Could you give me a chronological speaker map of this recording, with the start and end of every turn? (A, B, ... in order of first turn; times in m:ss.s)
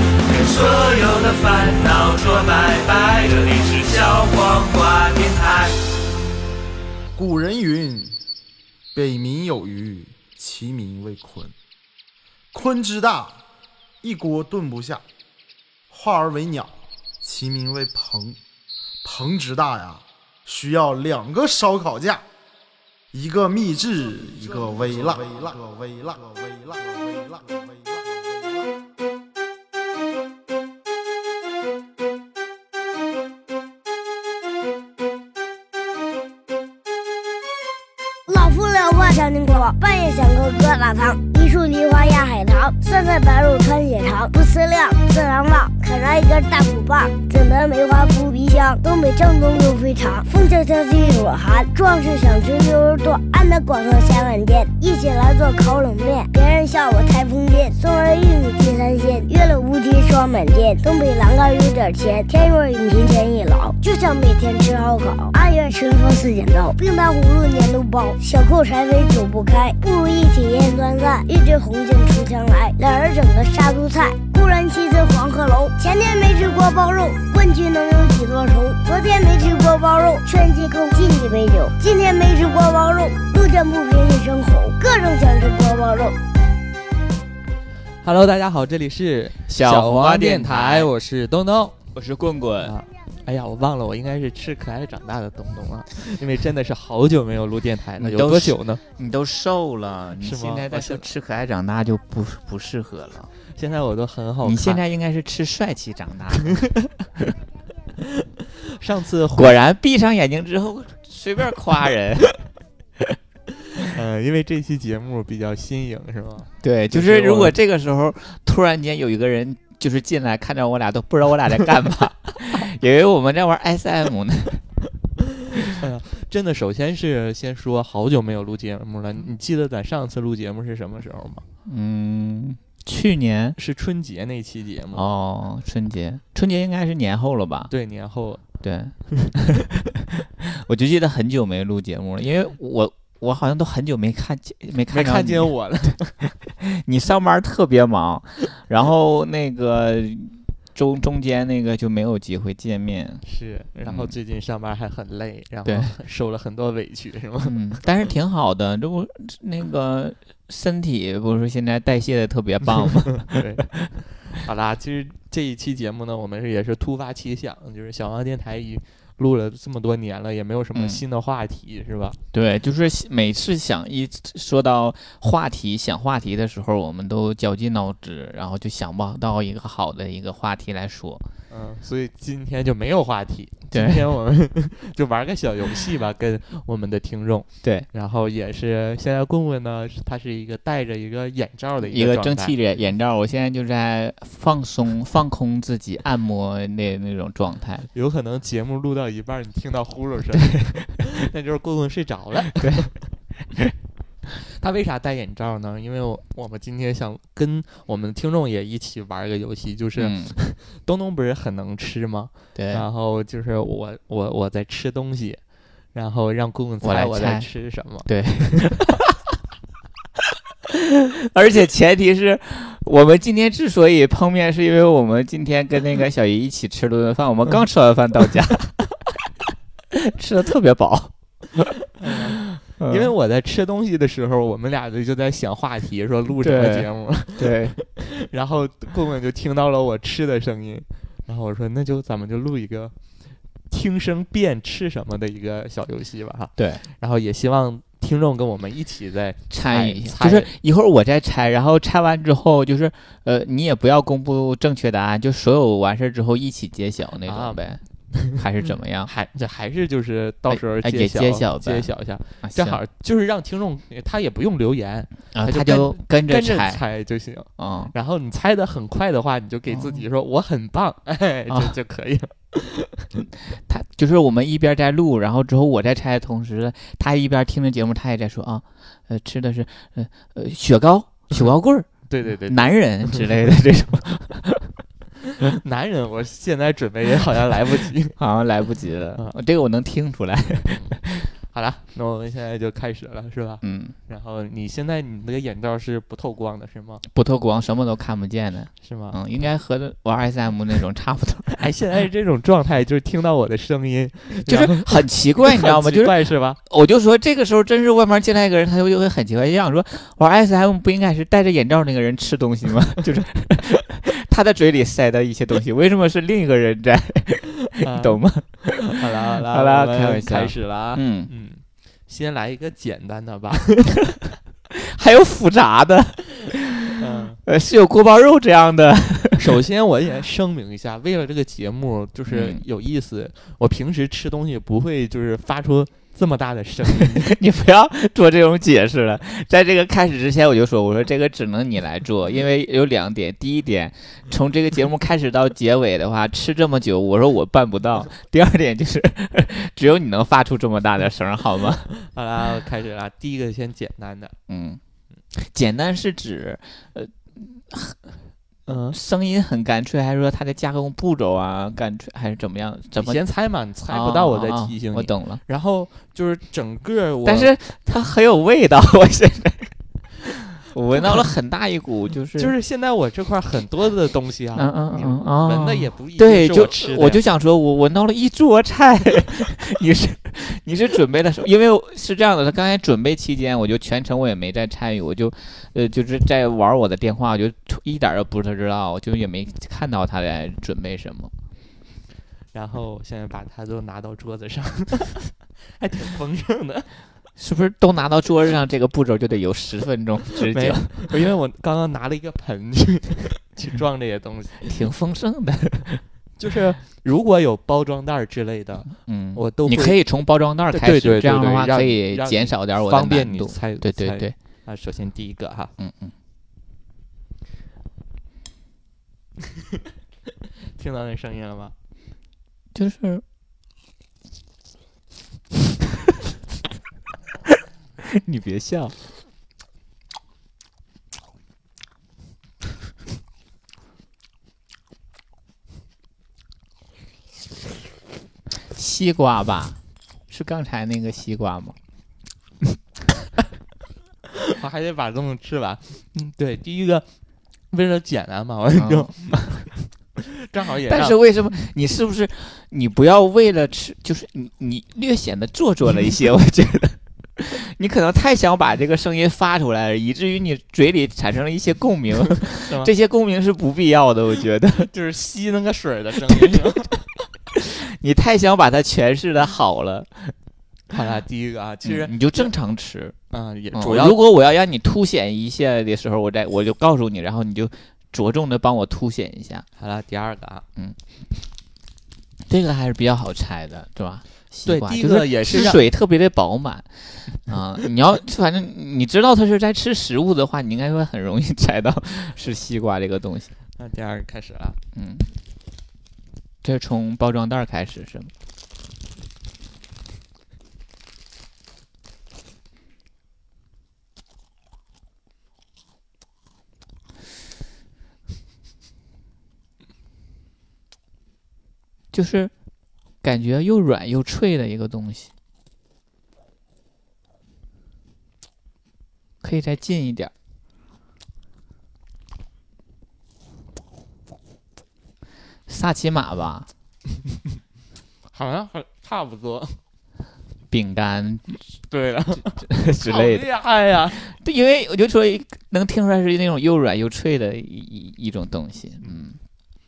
0:00.3-0:05.8 A
0:07.2-0:08.2 B
0:08.9-0:11.6 B
0:12.5-0:13.4 B
0:14.0-0:15.0 B
0:15.9-0:18.4 B
0:19.0-0:22.2 B
0:23.1-0:28.6 B
0:38.3-1:26.2 C
1:28.0-1:31.8 D
1:29.5-1:30.9 E
1:31.9-1:32.8 E
1:32.6-1:38.8 D
1:38.0-1:43.3 E
1:40.2-1:41.1 D
1:43.5-1:44.8 D
1:44.4-1:46.7 E
1:48.8-1:49.6 D
1:49.4-1:52.3 E
1:53.8-1:57.6 D
1:56.6-2:04.6 E
2:05.6-2:11.4 D
2:11.6-2:13.6 E
2:13.6-2:15.1 D
2:14.9-2:17.7 E
2:17.7-2:18.4 D
2:18.6-2:19.8 E
2:20.4-2:25.6 E
2:24.9-2:26.2 D
2:26.6-2:33.2 E
2:33.2-2:37.6 D
2:33.9-2:34.2 E
2:35.7-2:35.9 E
2:37.4-2:43.7 E
2:43.3-2:52.2 D
2:50.7-2:51.0 E
2:52.3-3:01.3 E
3:01.5-3:12.6 D
3:03.7-3:04.1 E
3:11.8-3:17.9 E
3:17.9-3:22.9 D
3:22.6-3:22.9 E
3:24.4-3:38.8 D
3:30.0-3:30.4 E
3:32.6-3:32.9 E
3:36.8-3:39.0 E
3:40.7-3:48.8 E
3:49.9-3:51.1 E
3:52.0-4:03.0 D
3:52.8-3:53.1 E
3:56.4-3:57.8 E
4:03.7-4:10.5 D
4:06.6-4:06.8 E
4:09.5-4:19.1 E
4:17.3-4:17.6 D
4:18.1-4:18.4 D
4:19.1-4:33.1 D
4:20.5-4:21.9 E
4:22.4-4:22.8 E
4:25.3-4:26.8 E
4:27.6-4:27.9 E
4:29.7-4:30.0 E
4:31.5-4:31.8 E
4:33.5-4:44.7 E
4:42.1-4:43.3 D
4:45.4-4:48.2 D
4:48.2-4:51.3 E
4:50.7-4:57.0 D
4:53.6-4:54.0 E
4:57.0-5:01.7 E
4:58.8-4:59.2 D
5:01.6-5:06.6 D
5:04.4-5:21.3 E
5:17.8-5:24.2 D
5:24.7-5:29.5 E
5:27.0-5:27.4 D
5:29.4-5:37.3 D
5:32.3-5:32.6 E
5:37.2-5:51.9 E
5:52.0-5:54.4 D
5:54.5-5:54.8 E
5:55.3-5:58.2 E
5:58.7-5:59.0 D
5:58.9-6:03.2 E
6:03.0-6:07.5 D
6:03.9-6:05.4 E
6:07.2-6:09.8 E
6:10.6-6:12.5 E
6:12.4-6:17.2 D
6:14.6-6:31.3 E
6:32.5-6:36.9 D
6:37.4-6:41.1 E
6:40.5-6:44.7 D
6:44.6-6:46.0 E
6:46.4-6:50.0 D
6:49.0-6:54.4 E
6:50.7-6:55.7 D
6:55.8-6:56.1 E
7:00.8-7:01.7 D
7:02.7-7:03.2 E
7:08.0-7:09.0 E
7:18.6-7:19.8 E
7:20.3-7:21.8 E
7:24.5-7:27.1 D
7:27.7-7:31.2 D
7:28.8-7:29.4 E
7:30.8-7:44.9 E
7:42.6-7:42.9 D
7:44.8-7:47.0 D
7:46.3-7:46.6 E
7:47.6-7:50.4 E
7:50.9-7:52.5 D
7:51.8-7:53.2 E
7:53.3-7:54.2 D
7:53.7-7:59.7 E
7:59.8-8:00.6 D
8:02.4-8:13.5 E
8:04.6-8:05.8 D
8:13.8-8:14.8 D
8:15.0-8:15.3 E
8:16.6-8:18.3 E
8:32.1-8:32.5 E
8:33.2-8:35.3 E
8:39.4-8:40.3 E
8:45.7-8:46.7 E
8:48.3-8:49.8 D
8:50.7-8:51.6 E
8:51.9-8:54.3 D
8:52.5-8:53.4 E
8:54.2-8:59.4 E